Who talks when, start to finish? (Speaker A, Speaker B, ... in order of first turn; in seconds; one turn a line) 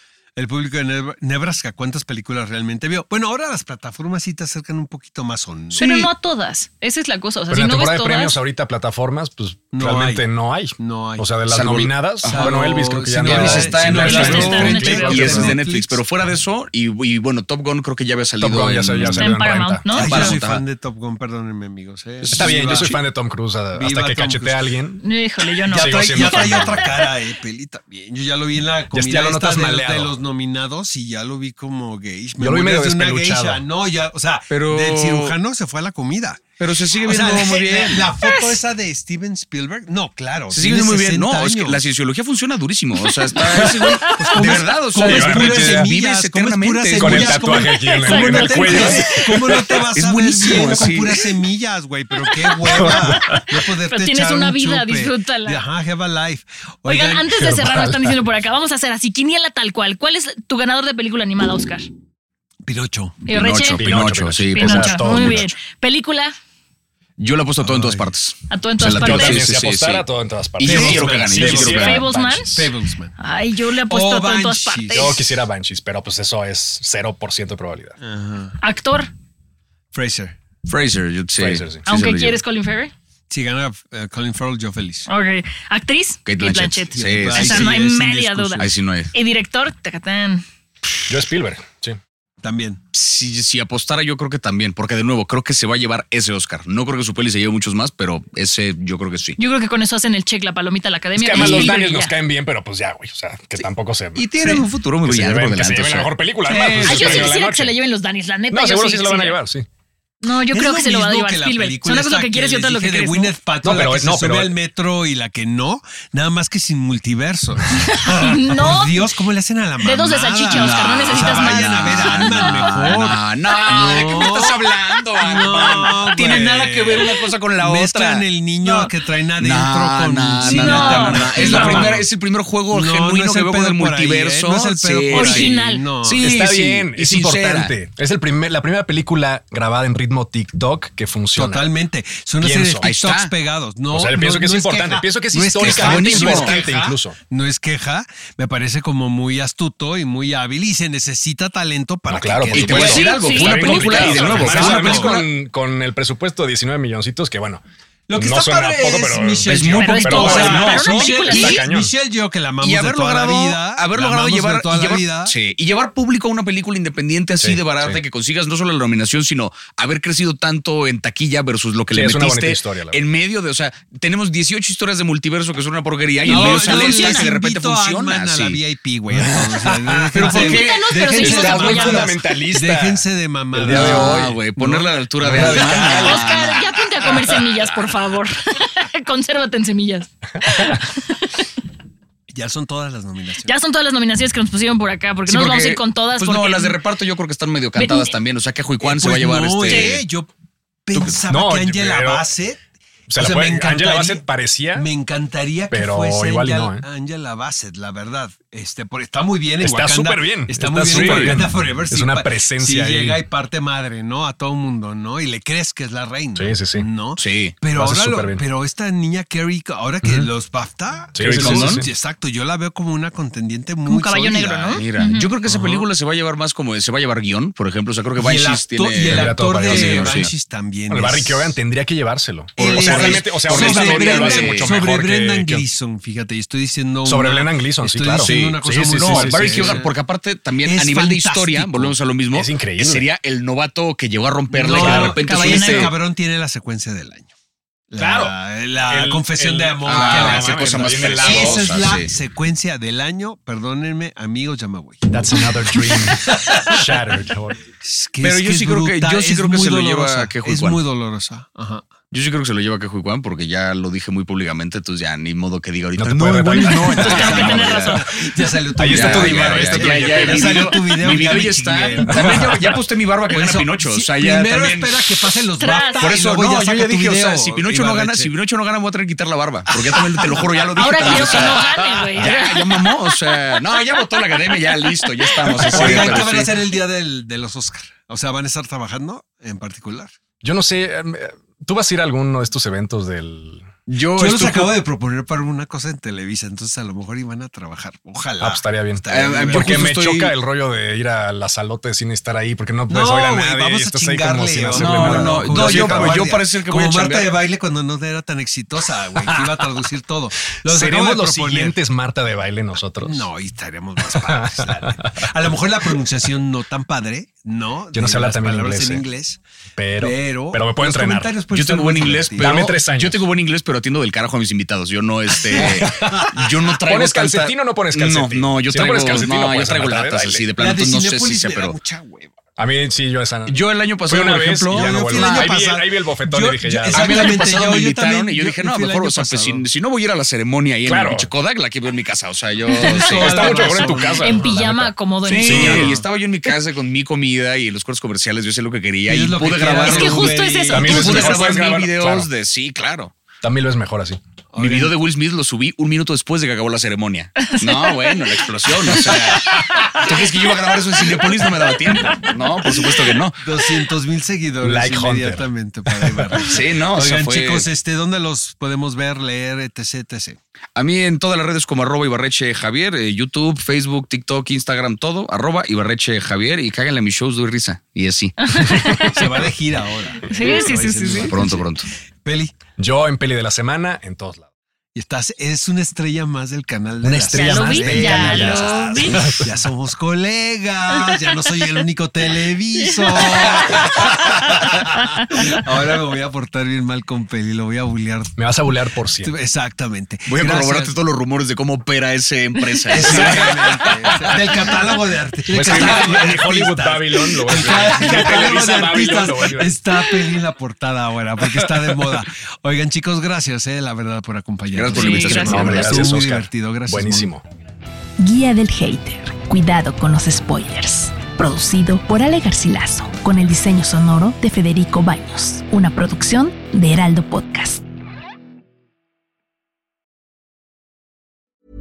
Speaker A: 0.3-5.8
Speaker B: 5.7-6.1
Speaker C: 5.7-8.4
Speaker D: 7.5-15.6
Speaker A: 9.7-10.3
Speaker A: 10.8-11.4
Speaker B: 11.5-19.4
Speaker A: 12.2-16.0
Speaker C: 14.0-15.4
Speaker D: 18.4-19.9
Speaker C: 19.1-20.4
Speaker B: 19.9-20.6
Speaker A: 19.9-22.9
Speaker B: 22.2-23.0
Speaker D: 22.3-25.0
Speaker A: 23.7-24.7
Speaker C: 25.0-27.0
Speaker A: 25.6-41.8
Speaker D: 25.7-26.9
Speaker D: 28.9-30.1
Speaker D: 32.4-33.6
Speaker B: 34.5-35.3
Speaker B: 36.6-38.1
Speaker B: 40.5-47.6
Speaker C: 43.9-44.5
Speaker A: 44.2-57.3
Speaker D: 45.0-45.9
Speaker D: 47.0-49.2
Speaker C: 47.7-49.2
Speaker B: 49.9-51.2
Speaker C: 52.7-55.6
Speaker D: 52.8-53.4
Speaker C: 56.9-61.9
Speaker D: 57.3-58.1
Speaker A: 62.7-63.3
Speaker C: 63.2-63.8
Speaker B: 63.3-65.2
Speaker D: 63.7-65.5
Speaker C: 64.5-66.3
Speaker B: 67.2-70.0
Speaker A: 67.6-68.1
Speaker C: 68.5-69.5
Speaker D: 68.9-72.7
Speaker B: 70.6-72.1
Speaker A: 70.6-73.2
Speaker C: 71.7-72.7
Speaker C: 73.2-75.2
Speaker A: 73.8-75.2
Speaker D: 74.9-78.0
Speaker A: 78.0-78.6
Speaker C: 78.6-79.1
Speaker A: 79.9-80.4
Speaker B: 80.7-82.4
Speaker D: 81.4-81.8
Speaker C: 81.8-82.9
Speaker A: 83.3-85.1
Speaker C: 85.1-90.4
Speaker B: 86.2-87.7
Speaker A: 86.9-88.7
Speaker B: 88.6-89.1
Speaker D: 91.1-92.0
Speaker A: 92.4-92.8
Speaker B: 92.9-99.4
Speaker C: 99.4-102.1
Speaker D: 101.1-107.7
Speaker B: 101.3-101.7
Speaker B: 104.1-106.1
Speaker A: 106.5-107.0
Speaker C: 106.5-109.4
Speaker B: 106.8-107.3
Speaker D: 108.5-109.7
Speaker C: 110.2-113.3
Speaker A: 110.5-132.0
Speaker D: 113.6-114.5
Speaker C: 117.8-119.0
Speaker C: 119.8-122.9
Speaker B: 120.5-137.7
Speaker C: 130.4-131.9
Speaker A: 132.7-136.2
Speaker C: 135.1-135.9
Speaker D: 136.2-141.7
Speaker A: 141.3-155.2
Speaker D: 142.4-142.9
Speaker B: 142.8-143.3
Speaker D: 143.9-147.2
Speaker B: 145.6-146.6
Speaker D: 152.1-157.6
Speaker B: 152.5-155.2
Speaker C: 152.7-155.1
Speaker A: 158.1-165.3
Speaker D: 158.2-161.9
Speaker B: 159.5-161.6
Speaker C: 159.7-161.6
Speaker B: 162.6-178.6
Speaker D: 167.4-168.0
Speaker D: 171.9-173.0
Speaker C: 176.2-177.3
Speaker A: 176.2-186.2
Speaker B: 179.1-179.5
Speaker D: 180.1-180.5
Speaker B: 180.2-181.5
Speaker C: 180.2-182.1
Speaker D: 181.1-184.4
Speaker B: 183.7-187.4
Speaker D: 185.2-186.2
Speaker C: 185.8-191.4
Speaker A: 192.3-193.5
Speaker C: 193.4-196.8
Speaker B: 195.3-200.0
Speaker C: 197.8-198.1
Speaker A: 198.8-200.3
Speaker A: 200.9-202.6
Speaker B: 200.9-201.2
Speaker D: 201.3-202.3
Speaker D: 203.1-204.9
Speaker A: 203.2-224.8
Speaker D: 205.7-206.8
Speaker D: 209.6-213.2
Speaker B: 210.8-211.4
Speaker D: 216.3-216.8
Speaker B: 217.2-217.6
Speaker D: 217.7-218.4
Speaker D: 221.2-221.9
Speaker B: 221.2-221.8
Speaker C: 223.9-225.3
Speaker B: 224.7-230.3
Speaker A: 228.2-231.6
Speaker D: 229.1-230.3
Speaker D: 230.9-235.6
Speaker A: 232.6-239.9
Speaker B: 232.7-234.8
Speaker D: 237.0-239.8
Speaker B: 238.2-245.9
Speaker A: 240.6-241.9
Speaker D: 242.3-243.0
Speaker A: 244.5-247.3
Speaker D: 244.7-245.2
Speaker C: 245.1-245.9
Speaker A: 247.9-256.9
Speaker D: 248.0-248.3
Speaker D: 248.9-251.6
Speaker B: 249.8-252.1
Speaker D: 255.1-257.6
Speaker A: 257.8-261.9
Speaker B: 258.2-260.8
Speaker B: 262.1-268.0
Speaker D: 265.9-267.7
Speaker A: 266.5-272.5
Speaker C: 267.0-268.1
Speaker D: 268.8-270.7
Speaker B: 268.9-275.1
Speaker A: 273.3-278.3
Speaker C: 275.6-276.0
Speaker B: 276.0-286.6
Speaker A: 279.7-281.5
Speaker C: 280.7-282.6
Speaker A: 285.5-290.1
Speaker D: 285.7-286.2
Speaker D: 290.4-293.7
Speaker B: 293.9-294.8
Speaker A: 294.1-299.9
Speaker D: 298.4-306.3
Speaker B: 299.1-300.3
Speaker A: 302.9-311.8
Speaker B: 304.7-307.4
Speaker D: 310.6-313.3
Speaker A: 313.0-319.4
Speaker D: 314.1-315.1
Speaker D: 317.9-319.1
Speaker D: 319.8-321.3
Speaker A: 320.0-322.6
Speaker B: 321.5-331.8
Speaker D: 322.4-323.2
Speaker A: 325.5-326.1
Speaker D: 325.5-330.4
Speaker A: 330.6-332.4
Speaker D: 332.6-337.3
Speaker B: 333.5-335.5
Speaker A: 334.7-339.6
Speaker B: 336.9-344.1
Speaker D: 340.9-341.3
Speaker A: 342.8-344.6
Speaker D: 342.9-345.9
Speaker C: 344.2-345.9
Speaker B: 345.2-353.1
Speaker A: 345.5-346.0
Speaker A: 349.1-351.5
Speaker C: 349.8-351.4
Speaker D: 350.7-352.3
Speaker D: 353.4-354.2
Speaker A: 354.5-355.0
Speaker B: 354.6-363.4
Speaker C: 357.4-358.2
Speaker A: 362.8-370.4
Speaker D: 364.6-366.4
Speaker B: 366.4-367.6
Speaker B: 370.8-378.3
Speaker C: 378.4-379.2
Speaker D: 378.7-379.1
Speaker A: 379.1-381.7
Speaker C: 380.2-381.4
Speaker B: 381.2-381.9
Speaker A: 382.2-382.5
Speaker D: 382.8-384.5
Speaker A: 384.9-398.4
Speaker D: 387.0-389.5
Speaker C: 387.3-389.3
Speaker D: 398.4-399.3
Speaker A: 399.2-400.9
Speaker B: 400.3-404.5
Speaker A: 402.9-417.3
Speaker D: 403.0-404.1
Speaker D: 405.5-409.8
Speaker B: 405.6-406.2
Speaker B: 414.7-416.3
Speaker C: 414.9-415.8
Speaker D: 415.4-417.4
Speaker E: 418.2-427.8